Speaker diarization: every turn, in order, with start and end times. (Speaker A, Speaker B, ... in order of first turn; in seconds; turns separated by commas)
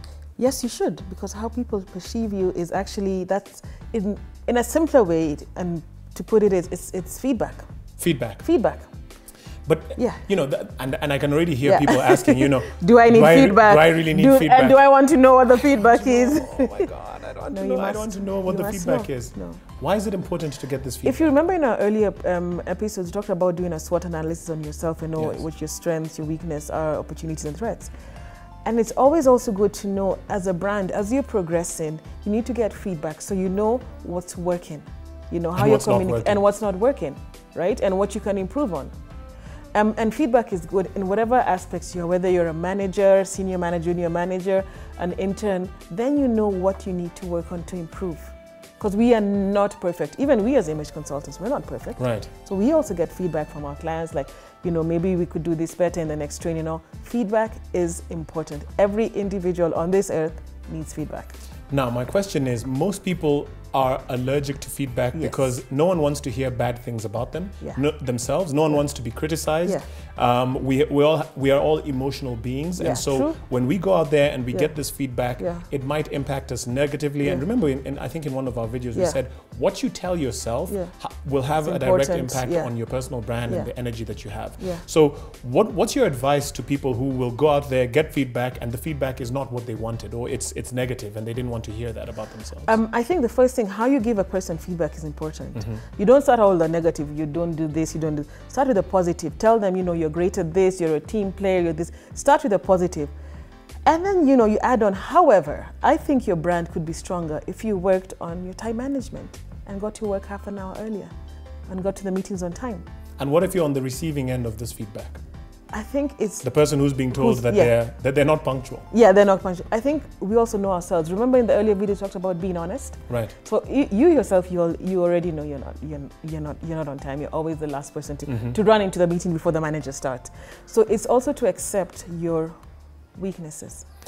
Speaker A: 0.4-7.7, Speaker B: 8.0-8.4, Speaker A: 8.4-8.9, Speaker B: 9.7-14.8, Speaker A: 10.0-10.2, Speaker A: 11.6-16.9, Speaker B: 15.7-21.3, Speaker A: 17.5-19.6, Speaker A: 21.0-27.9, Speaker B: 25.2-25.4, Speaker A: 28.6-38.9, Speaker B: 35.5-36.4, Speaker A: 39.7-61.4, Speaker B: 52.0-52.3, Speaker B: 61.7-92.7, Speaker A: 65.1-65.5, Speaker A: 72.8-73.4, Speaker A: 75.4-75.7, Speaker A: 81.6-82.7, Speaker A: 92.6-103.1, Speaker B: 95.6-95.8, Speaker A: 103.9-111.1, Speaker A: 111.7-112.8, Speaker B: 113.2-115.2, Speaker A: 115.7-116.5, Speaker B: 116.4-118.9, Speaker A: 117.1-117.8, Speaker A: 118.9-132.6, Speaker B: 123.1-123.3, Speaker A: 133.2-133.8